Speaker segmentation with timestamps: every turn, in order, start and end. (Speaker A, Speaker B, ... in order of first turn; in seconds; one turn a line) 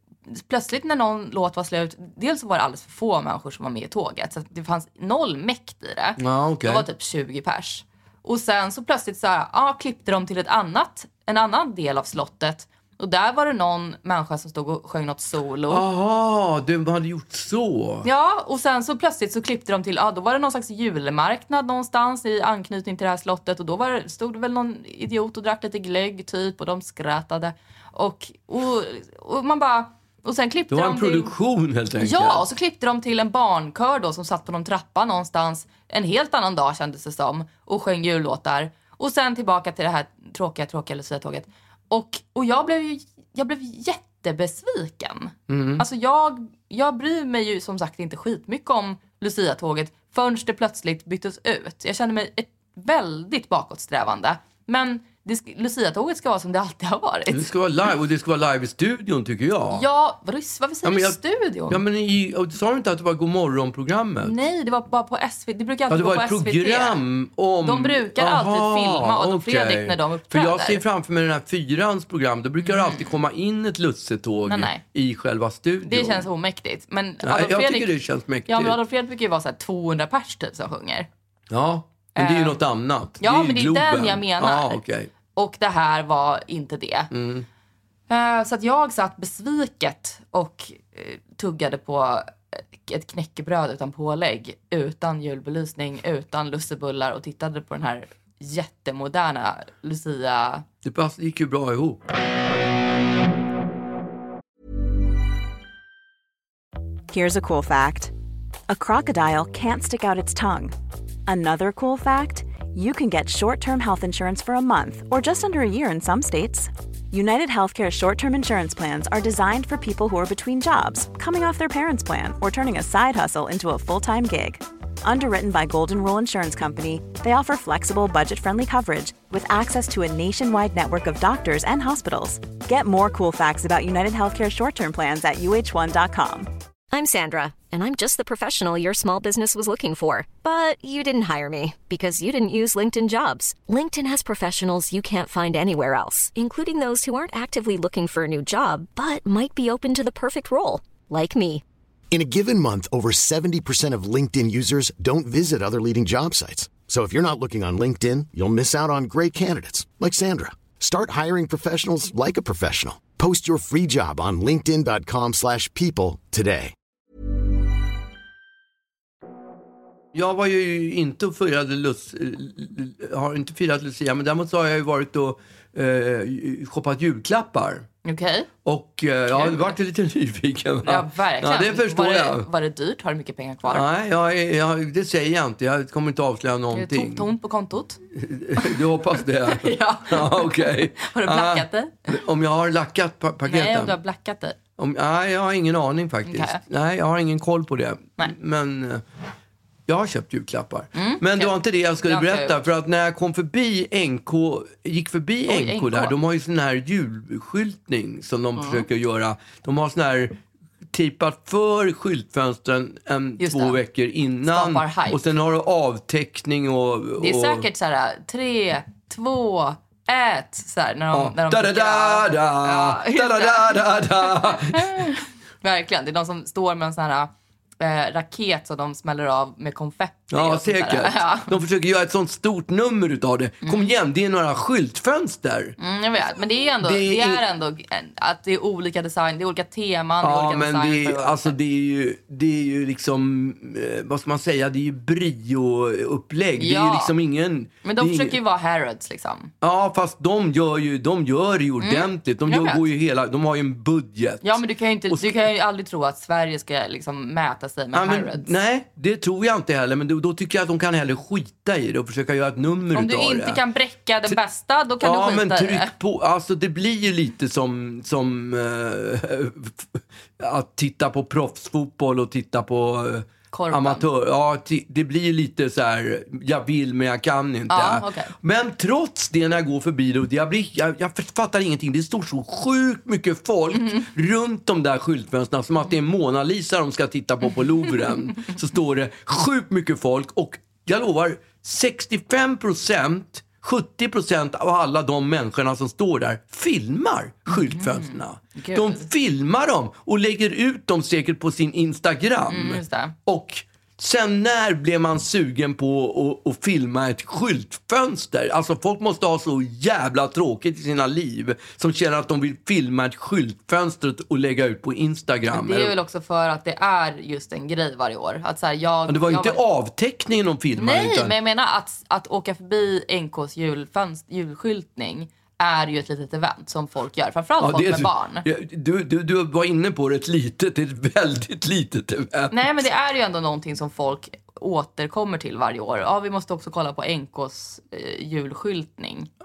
Speaker A: 0.3-15.8
Speaker B: 6.2-6.8
Speaker B: 15.7-18.1
Speaker A: 18.0-31.3
Speaker B: 30.7-32.4
Speaker A: 32.0-57.5
Speaker B: 45.5-45.8
Speaker B: 57.3-59.8
Speaker A: 59.7-61.8
Speaker B: 60.8-64.3
Speaker A: 64.2-67.0
Speaker B: 65.9-76.3
Speaker A: 67.6-70.8
Speaker A: 72.6-73.2
Speaker A: 74.5-74.8
Speaker A: 75.8-77.9
Speaker B: 77.2-78.8
Speaker A: 78.5-81.1
Speaker B: 81.5-85.1
Speaker A: 82.2-82.6
Speaker A: 83.2-84.8
Speaker A: 85.3-87.1
Speaker B: 87.1-87.5
Speaker A: 88.1-100.6
Speaker B: 100.8-102.0
Speaker C: 107.1-108.1
Speaker C: 108.7-110.7
Speaker C: 111.2-136.5
Speaker D: 136.9-151.6
Speaker E: 152.1-166.7
Speaker B: 170.1-177.9
Speaker A: 178.0-178.5
Speaker B: 178.6-182.5
Speaker A: 179.3-179.8
Speaker A: 180.8-183.8
Speaker B: 183.7-187.3
Speaker A: 186.7-188.0
Speaker B: 188.1-193.9
Speaker A: 189.5-192.2
Speaker A: 193.5-194.6
Speaker B: 194.8-199.0
Speaker A: 196.2-196.6
Speaker B: 199.9-210.4
Speaker A: 200.9-202.5
Speaker A: 205.5-206.2
Speaker A: 208.6-208.8
Speaker B: 210.9-217.7
Speaker A: 213.4-213.8
Speaker A: 214.4-215.2
Speaker A: 217.2-231.6
Speaker B: 221.1-225.0
Speaker B: 230.3-235.8
Speaker A: 233.6-233.9
Speaker A: 235.8-241.5
Speaker B: 236.8-237.4
Speaker B: 240.2-248.4
Speaker A: 246.6-247.1
Speaker A: 247.8-249.5
Speaker B: 249.6-255.3
Speaker A: 251.8-252.8
Speaker A: 254.4-258.5
Speaker B: 257.9-263.6
Speaker A: 262.9-265.9
Speaker B: 265.0-315.9
Speaker A: 273.5-274.1
Speaker A: 277.7-278.3
Speaker A: 283.8-284.1
Speaker A: 297.5-299.1
Speaker A: 302.5-303.1
Speaker A: 315.5-319.6
Speaker B: 319.1-321.3
Speaker A: 320.8-328.4
Speaker B: 327.6-332.8
Speaker A: 332.5-339.3